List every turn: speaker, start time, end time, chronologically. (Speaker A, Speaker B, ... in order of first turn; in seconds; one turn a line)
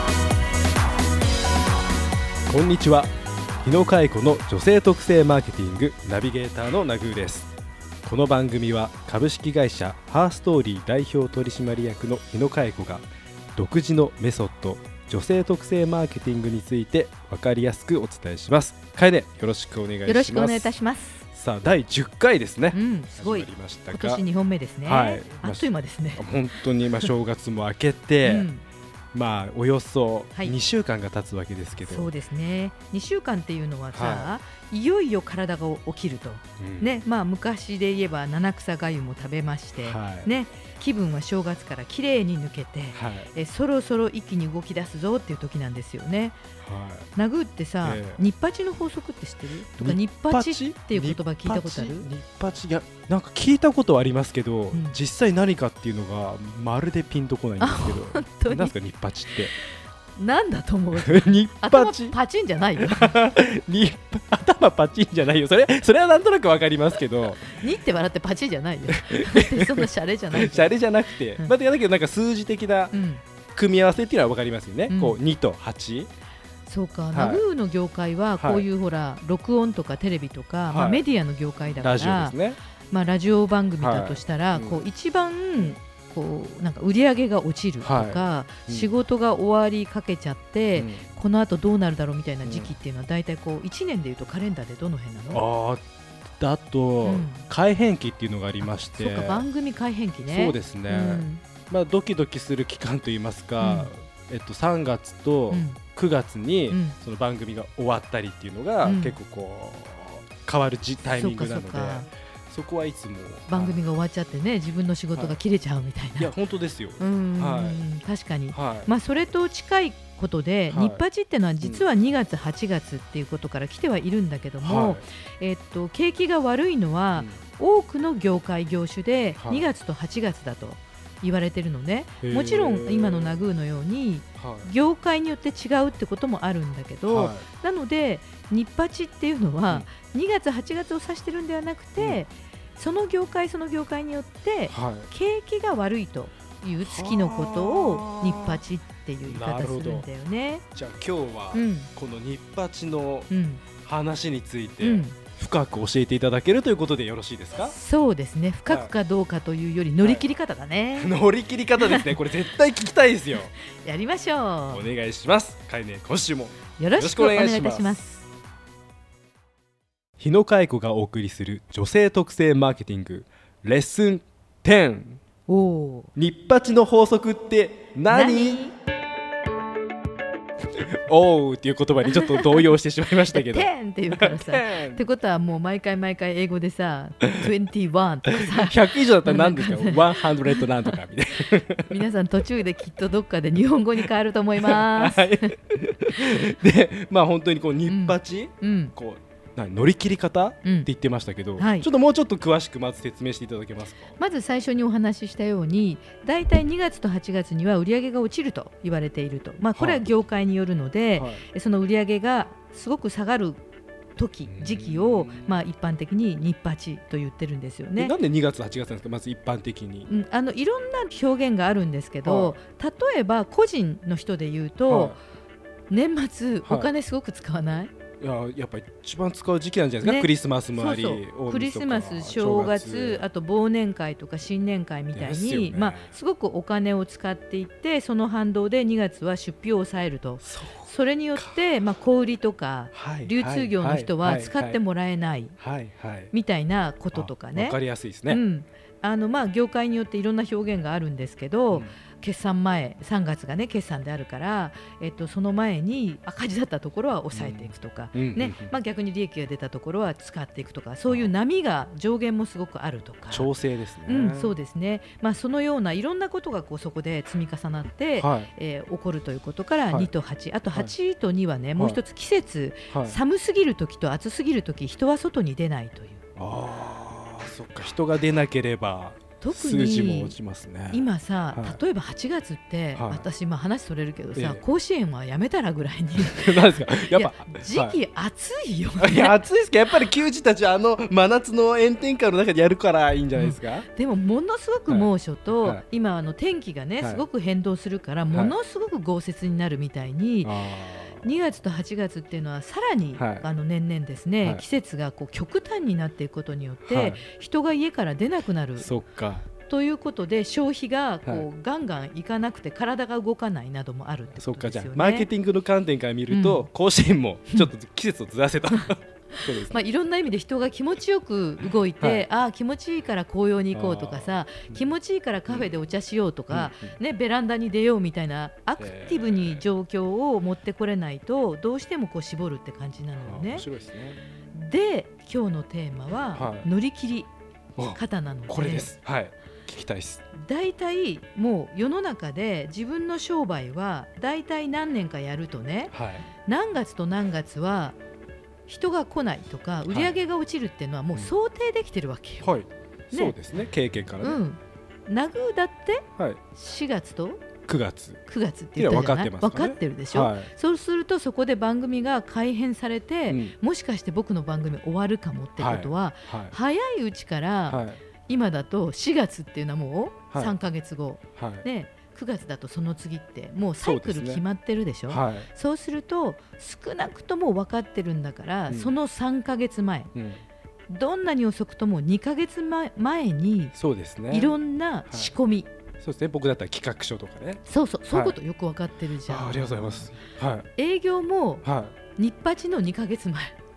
Speaker A: 2.5-3.1
Speaker A: 3.6-7.5
Speaker A: 8.0-20.7
Speaker B: 20.1-21.2
Speaker A: 21.3-24.2
Speaker B: 22.7-27.1
Speaker A: 24.8-28.5
Speaker B: 28.2-28.6
Speaker A: 29.1-32.1
Speaker B: 31.8-46.4
Speaker A: 33.9-34.3
Speaker A: 36.6-37.0
Speaker A: 39.8-40.3
Speaker A: 42.9-43.3
Speaker A: 46.6-47.1
Speaker B: 47.1-52.1
Speaker A: 47.8-48.2
Speaker A: 49.8-59.5
Speaker B: 57.6-58.7
Speaker B: 59.3-63.1
Speaker A: 60.9-62.2
Speaker A: 62.8-67.6
Speaker B: 67.4-70.7
Speaker A: 68.9-72.9
Speaker B: 72.9-73.2
Speaker A: 73.5-76.1
Speaker B: 74.9-75.2
Speaker B: 76.7-82.4
Speaker A: 77.1-77.4
Speaker A: 78.4-78.7
Speaker A: 80.7-81.0
Speaker A: 81.6-82.6
Speaker B: 82.9-95.4
Speaker A: 83.8-84.8
Speaker A: 87.8-88.9
Speaker A: 90.8-91.0
Speaker A: 92.4-92.7
Speaker A: 95.3-95.8
Speaker A: 96.4-99.4
Speaker B: 97.0-97.4
Speaker B: 98.9-101.4
Speaker A: 100.3-113.8
Speaker B: 103.6-103.9
Speaker B: 105.5-105.8
Speaker B: 106.7-107.0
Speaker B: 108.8-109.2
Speaker B: 111.0-112.1
Speaker B: 113.5-116.3
Speaker A: 116.2-117.8
Speaker B: 117.0-150.6
Speaker A: 118.5-118.9
Speaker A: 120.7-121.0
Speaker A: 124.6-125.0
Speaker A: 129.4-129.7
Speaker A: 132.2-133.4
Speaker A: 134.4-134.7
Speaker A: 137.1-137.4
Speaker A: 144.7-145.1
Speaker A: 146.8-148.6
Speaker A: 149.2-150.1
Speaker A: 150.7-153.3
Speaker B: 151.5-151.9
Speaker B: 153.3-153.6
Speaker A: 153.8-157.7
Speaker B: 154.8-155.2
Speaker B: 157.6-161.1
Speaker A: 158.7-158.9
Speaker A: 161.0-163.5
Speaker B: 161.8-162.2
Speaker B: 163.6-164.9
Speaker A: 164.7-168.0
Speaker B: 166.8-168.2
Speaker A: 170.2-175.2
Speaker B: 175.5-176.1
Speaker A: 176.1-178.6
Speaker B: 178.1-178.7
Speaker A: 180.9-185.0
Speaker B: 182.0-182.7
Speaker B: 183.3-190.9
Speaker A: 188.3-192.0
Speaker B: 191.9-195.6
Speaker A: 194.6-204.2
Speaker B: 197.9-198.9
Speaker B: 200.6-200.9
Speaker B: 201.6-201.9
Speaker B: 204.2-213.6
Speaker A: 209.8-210.0
Speaker A: 211.2-211.4
Speaker B: 214.2-218.1
Speaker A: 214.4-215.6
Speaker A: 218.0-220.1
Speaker B: 220.1-225.2
Speaker A: 222.2-222.6
Speaker A: 224.9-225.2
Speaker B: 225.9-227.9
Speaker A: 226.6-226.9
Speaker A: 228.2-233.2
Speaker B: 230.0-245.6
Speaker A: 235.1-236.1
Speaker A: 240.4-241.5
Speaker A: 242.9-244.8
Speaker A: 245.6-246.3
Speaker B: 246.3-263.5
Speaker A: 247.1-248.4
Speaker A: 257.3-258.7
Speaker A: 263.3-264.5
Speaker B: 264.1-276.2
Speaker A: 268.2-268.5
Speaker A: 272.9-273.2
Speaker A: 276.4-281.0
Speaker B: 279.4-280.4
Speaker B: 280.9-289.3
Speaker A: 281.5-281.8
Speaker A: 282.9-283.2
Speaker A: 284.4-284.6
Speaker A: 286.2-288.0
Speaker A: 289.0-293.9
Speaker B: 293.4-300.6
Speaker A: 294.9-295.8
Speaker A: 300.4-301.2
Speaker B: 301.2-308.9
Speaker A: 303.2-303.4
Speaker A: 306.8-307.2
Speaker A: 308.8-309.4
Speaker B: 309.6-315.3
Speaker A: 314.4-319.8
Speaker B: 316.3-316.7
Speaker B: 319.3-333.6
Speaker A: 322.0-322.2
Speaker A: 323.7-324.8
Speaker A: 326.5-326.9
Speaker A: 328.8-329.6
Speaker A: 333.2-334.2
Speaker B: 334.5-337.3
Speaker A: 336.3-336.7
Speaker A: 337.8-340.2
Speaker B: 337.9-338.9
Speaker B: 340.3-348.0
Speaker A: 345.9-346.3
Speaker B: 348.7-352.5
Speaker A: 349.9-350.1
Speaker A: 352.4-354.4
Speaker B: 354.2-357.4
Speaker A: 357.7-358.2
Speaker B: 358.3-380.1
Speaker A: 358.8-360.5
Speaker A: 363.3-363.5
Speaker A: 365.6-366.5
Speaker A: 367.7-368.0
Speaker A: 371.4-371.6
Speaker A: 373.8-374.4
Speaker A: 375.1-375.5
Speaker A: 380.1-380.4
Speaker B: 380.9-383.7
Speaker A: 383.7-384.6
Speaker B: 384.3-385.7
Speaker A: 386.0-388.4
Speaker B: 387.6-390.1
Speaker A: 389.3-390.7
Speaker B: 390.8-393.5
Speaker A: 391.6-391.9